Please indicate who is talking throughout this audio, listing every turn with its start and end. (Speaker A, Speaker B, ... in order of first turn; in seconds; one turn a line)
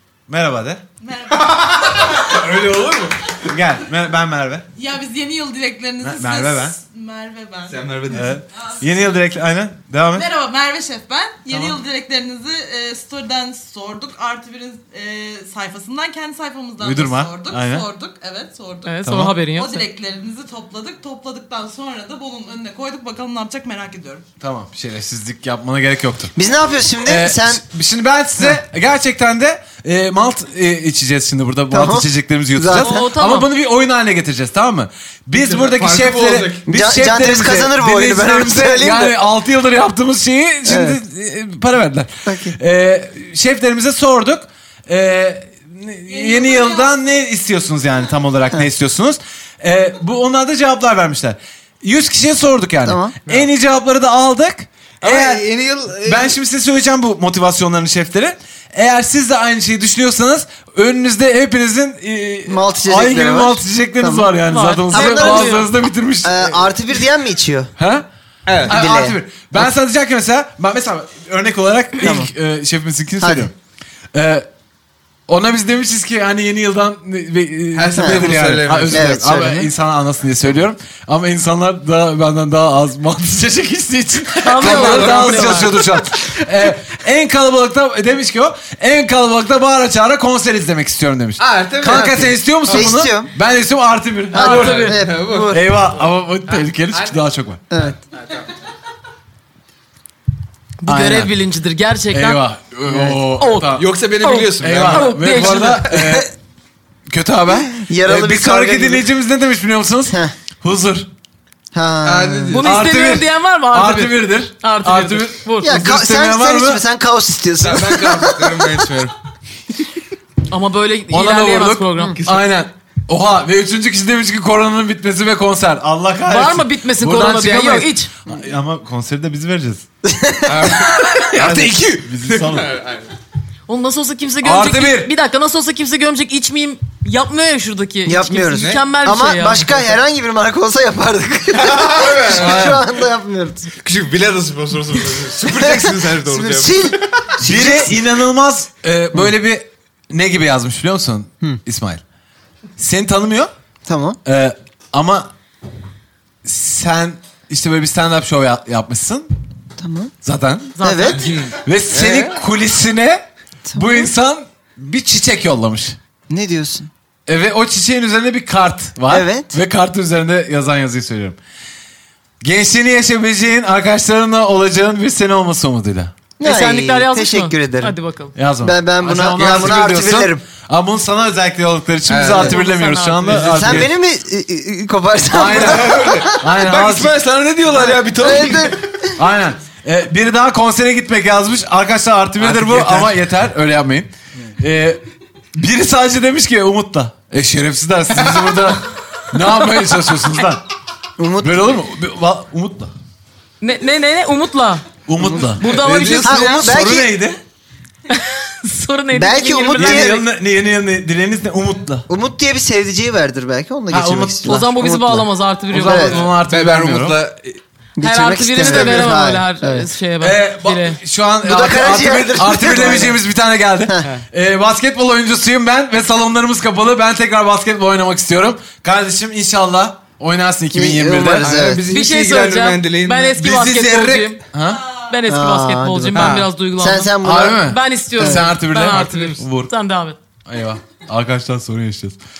Speaker A: 0.3-0.8
Speaker B: 1.0-1.9
Speaker C: 1.4-3.4
Speaker A: 3.4-4.6
Speaker B: 4.8-9.2
Speaker A: 6.0-6.8
Speaker C: 7.7-8.4
Speaker A: 8.1-10.3
Speaker B: 10.1-24.2
Speaker A: 11.5-11.8
Speaker A: 16.8-17.9
Speaker D: 18.9-19.8
Speaker A: 19.0-19.4
Speaker A: 24.4-26.3
Speaker E: 26.4-27.6
Speaker A: 27.0-55.5
Speaker E: 31.7-33.0
Speaker D: 32.7-33.5
Speaker C: 35.3-36.6
Speaker E: 36.6-39.1
Speaker E: 40.6-41.0
Speaker E: 42.2-42.6
Speaker B: 46.1-46.9
Speaker E: 52.8-53.1
Speaker C: 55.0-56.4
Speaker A: 56.0-66.5
Speaker E: 62.5-64.3
Speaker D: 64.5-65.7
Speaker E: 64.9-65.7
Speaker E: 66.2-67.7
Speaker A: 67.8-68.0
Speaker C: 68.5-68.8
Speaker A: 68.6-73.5
Speaker E: 68.7-69.7
Speaker E: 72.0-72.3
Speaker E: 73.2-73.5
Speaker A: 74.1-74.5
Speaker A: 75.3-97.6
Speaker C: 77.7-79.1
Speaker E: 77.9-78.3
Speaker E: 78.9-79.7
Speaker D: 84.4-85.8
Speaker C: 84.5-85.9
Speaker C: 91.4-92.9
Speaker E: 91.8-93.3
Speaker E: 94.3-95.7
Speaker D: 94.3-95.0
Speaker C: 94.4-95.6
Speaker C: 96.5-97.2
Speaker E: 97.7-98.0
Speaker C: 98.1-98.5
Speaker D: 100.8-102.4
Speaker A: 100.9-101.3
Speaker A: 102.1-103.8
Speaker E: 102.9-103.1
Speaker D: 103.4-106.0
Speaker C: 103.7-105.7
Speaker A: 104.6-106.3
Speaker E: 106.0-106.3
Speaker A: 107.1-111.1
Speaker E: 107.7-109.1
Speaker E: 111.7-112.6
Speaker C: 112.0-112.8
Speaker D: 112.5-115.8
Speaker A: 112.6-116.8
Speaker E: 115.6-118.8
Speaker C: 117.6-119.1
Speaker D: 120.5-122.2
Speaker A: 121.1-129.8
Speaker C: 122.2-122.4
Speaker D: 126.3-128.1
Speaker E: 130.0-130.8
Speaker C: 130.4-133.1
Speaker A: 131.2-132.7
Speaker D: 133.7-139.8
Speaker A: 134.4-135.1
Speaker E: 138.1-143.7
Speaker C: 138.6-138.8
Speaker C: 141.5-142.8
Speaker A: 142.3-142.8
Speaker C: 143.8-147.3
Speaker E: 145.5-148.0
Speaker A: 147.4-152.0
Speaker A: 152.8-153.5
Speaker E: 153.8-154.2
Speaker A: 154.2-155.3
Speaker A: 156.4-159.3
Speaker E: 159.8-160.1
Speaker A: 160.2-160.8
Speaker D: 160.8-161.3
Speaker E: 160.8-161.2
Speaker C: 161.2-162.4
Speaker A: 161.6-163.2
Speaker E: 163.7-164.1
Speaker A: 163.7-166.0
Speaker E: 166.3-166.9
Speaker A: 167.3-171.4
Speaker E: 169.1-169.6
Speaker A: 172.4-176.2
Speaker E: 176.4-177.9
Speaker D: 176.4-178.3
Speaker A: 178.3-183.9
Speaker E: 178.6-180.4
Speaker C: 182.1-182.6
Speaker D: 182.4-183.5
Speaker C: 183.3-183.8
Speaker E: 183.3-186.4
Speaker A: 185.3-187.1
Speaker C: 185.4-188.9
Speaker E: 187.8-189.1
Speaker A: 189.2-195.0
Speaker C: 192.4-193.1
Speaker A: 195.5-200.6
Speaker C: 198.1-198.7
Speaker E: 201.2-201.7
Speaker A: 201.4-202.9
Speaker D: 203.6-204.8
Speaker A: 205.1-207.4
Speaker E: 205.2-205.5
Speaker D: 205.6-206.6
Speaker C: 205.6-206.2
Speaker E: 206.2-207.1
Speaker D: 208.1-210.2
Speaker E: 209.1-210.2
Speaker A: 209.8-212.1
Speaker E: 212.1-216.2
Speaker A: 213.9-214.6
Speaker D: 214.4-216.2
Speaker A: 215.7-217.2
Speaker C: 216.1-217.6
Speaker E: 218.0-219.8
Speaker D: 218.0-221.0
Speaker A: 220.2-231.6
Speaker E: 221.4-223.2
Speaker E: 230.7-231.9
Speaker C: 231.4-233.4
Speaker D: 231.9-234.4
Speaker A: 233.3-234.8
Speaker D: 235.0-240.2
Speaker E: 235.3-238.4
Speaker C: 236.1-236.5
Speaker A: 237.2-239.7
Speaker C: 238.8-239.4
Speaker A: 240.4-242.2